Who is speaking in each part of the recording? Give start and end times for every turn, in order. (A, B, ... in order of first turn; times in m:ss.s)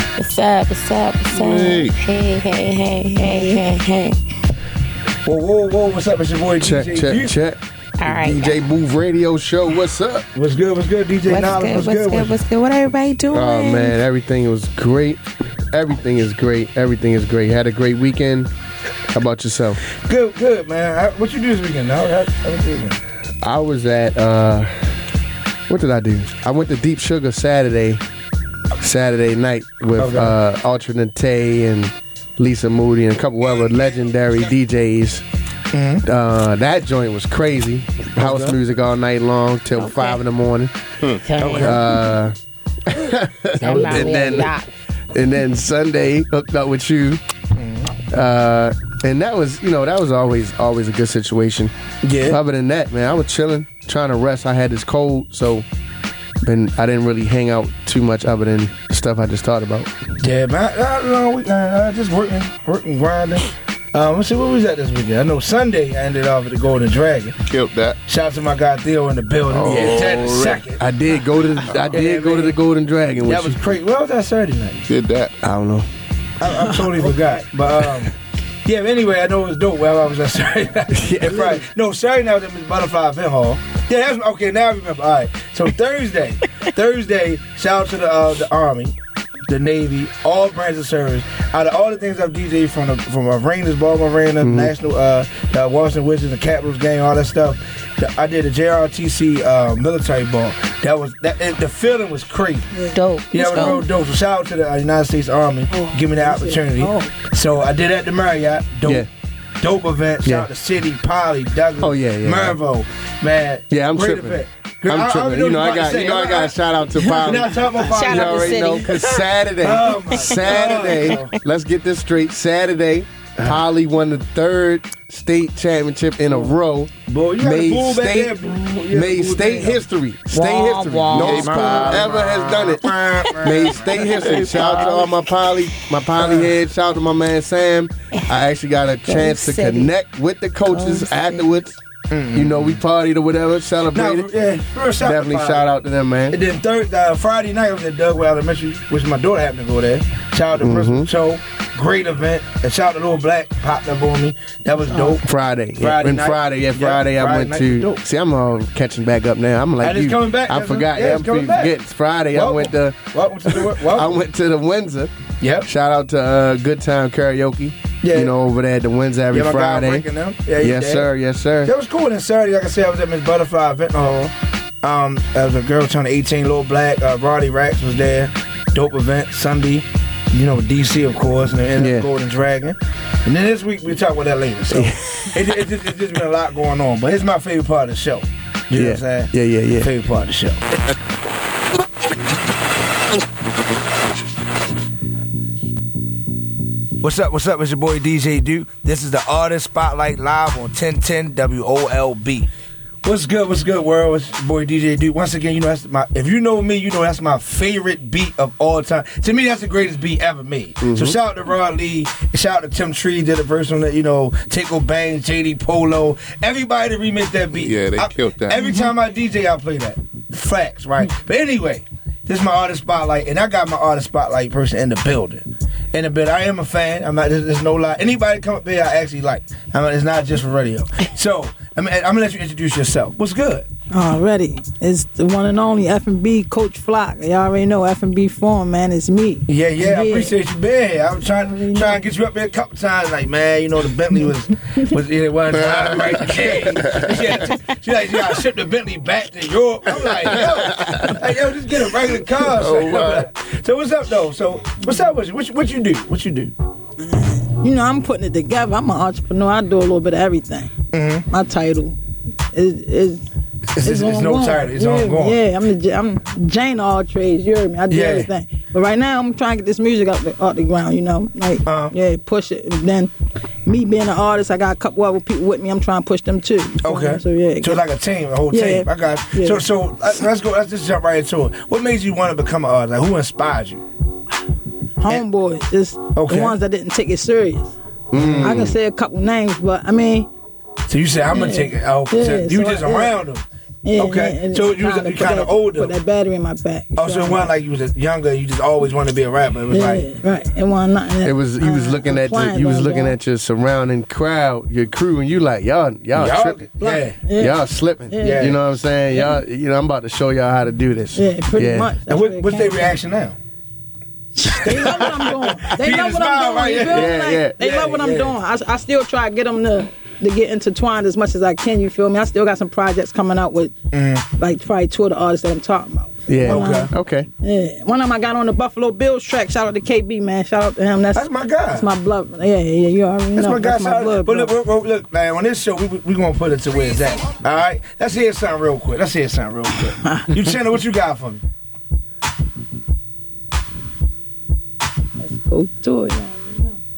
0:00.2-0:04.3 A
0:01.3-0:01.9 B
0:03.2-0:03.6 C
0:05.2-0:07.4 D
0:06.6-0:10.2 E
0:08.0-0:08.6 A
0:10.3-0:12.4 D
0:11.3-0:13.9 A
0:13.3-0:18.5 E
0:19.1-0:19.8 E
0:20.0-0:23.0 D
0:23.4-0:25.0 E
0:25.7-0:28.0 E
0:28.8-0:35.2 E
0:30.0-0:30.3 D
0:35.7-0:36.0 D
0:36.0-0:40.7 E
0:38.2-0:38.6 D
0:39.7-0:40.2 A
0:41.2-0:41.9 A
0:41.4-0:41.8 D
0:41.6-0:42.3 E
0:42.9-0:44.5 E
0:43.6-0:44.7 A
0:45.1-0:47.2 E
0:47.5-0:47.9 D
0:48.1-0:51.7 E
0:52.0-0:52.4 D
0:52.3-0:55.6 E
0:56.4-0:59.9 E
1:00.2-1:07.4 D
1:07.4-1:08.0 B
1:08.1-1:10.8 D
1:09.5-1:10.2 E
1:09.6-1:10.6 B
1:10.8-1:13.6 E
1:11.9-1:12.6 D
1:13.2-1:14.9 D
1:14.9-1:15.4 B
1:15.4-1:15.8 E
1:16.4-1:18.1 D
1:18.6-1:28.9 D
1:20.9-1:21.6 E
1:29.5-1:42.7 D
1:34.4-1:34.7 E
1:42.7-1:43.8 C
1:42.9-1:43.8 A
1:43.3-1:49.1 D
1:45.7-1:47.2 C
1:49.6-1:56.6 D
1:51.8-1:52.6 E
1:53.7-2:08.4 E
1:57.1-1:58.7 D
1:57.8-1:59.1 A
1:59.6-2:01.3 D
2:07.1-2:09.8 D
2:08.9-2:21.8 E
2:10.3-2:11.9 A
2:11.1-2:12.5 B
2:11.4-2:14.2 D
2:14.1-2:15.1 B
2:16.2-2:16.5 D
2:19.1-2:19.9 A
2:20.7-2:21.4 A
2:22.1-2:22.8 D
2:22.3-2:24.3 E
2:23.9-2:25.7 D
2:25.0-2:26.4 E
2:26.3-2:38.0 D
2:30.6-2:31.1 E
2:35.2-2:45.1 E
2:39.8-2:41.7 D
2:42.3-2:44.1 D
2:45.4-2:45.7 D
2:45.6-2:50.0 E
2:48.0-2:48.3 D
2:49.3-2:51.1 D
2:50.6-2:51.7 E
2:51.6-3:10.6 D
3:01.8-3:02.1 E
3:04.7-3:05.3 E
3:08.8-3:09.9 E
3:17.0-3:22.5 D
3:23.0-3:53.7 D
3:30.8-3:31.2 E
3:37.6-3:38.6 B
3:53.9-4:00.3 C
3:59.5-4:16.5 D
4:01.5-4:02.0 C
4:05.5-4:07.3 B
4:12.5-4:13.3 B
4:17.0-4:20.7 C
4:20.9-4:21.3 D
4:21.3-4:21.9 C
4:22.5-4:23.2 C
4:23.8-4:25.4 D
4:23.8-4:33.1 C
4:27.9-4:28.3 D
4:31.6-4:31.9 D
4:33.6-4:37.8 C
4:36.8-4:43.8 D
4:38.5-4:39.6 C
4:45.0-4:50.3 C
4:46.1-4:46.6 D
4:48.1-4:48.7 E
4:48.1-4:48.6 D
4:50.9-4:53.4 D
4:51.3-4:53.1 C
4:53.8-4:57.5 C
4:54.0-4:55.9 D
4:57.0-5:00.1 D
4:59.7-5:03.2 C
5:01.2-5:06.6 E
5:06.2-5:07.2 D
5:06.8-5:07.6 C
5:07.3-5:11.9 E
5:08.1-5:08.5 C
5:08.2-5:08.6 D
5:09.1-5:09.4 C
5:11.1-5:12.9 C
5:12.1-5:13.4 D
5:14.3-5:23.7 C
5:14.5-5:18.4 D
5:16.9-5:17.6 E
5:23.9-5:24.2 D
5:24.4-5:26.9 C
5:26.3-5:27.3 E
5:26.4-5:26.9 D
5:27.4-5:34.5 C
5:31.1-5:31.9 D
5:33.4-5:41.4 D
5:45.2-5:46.8 C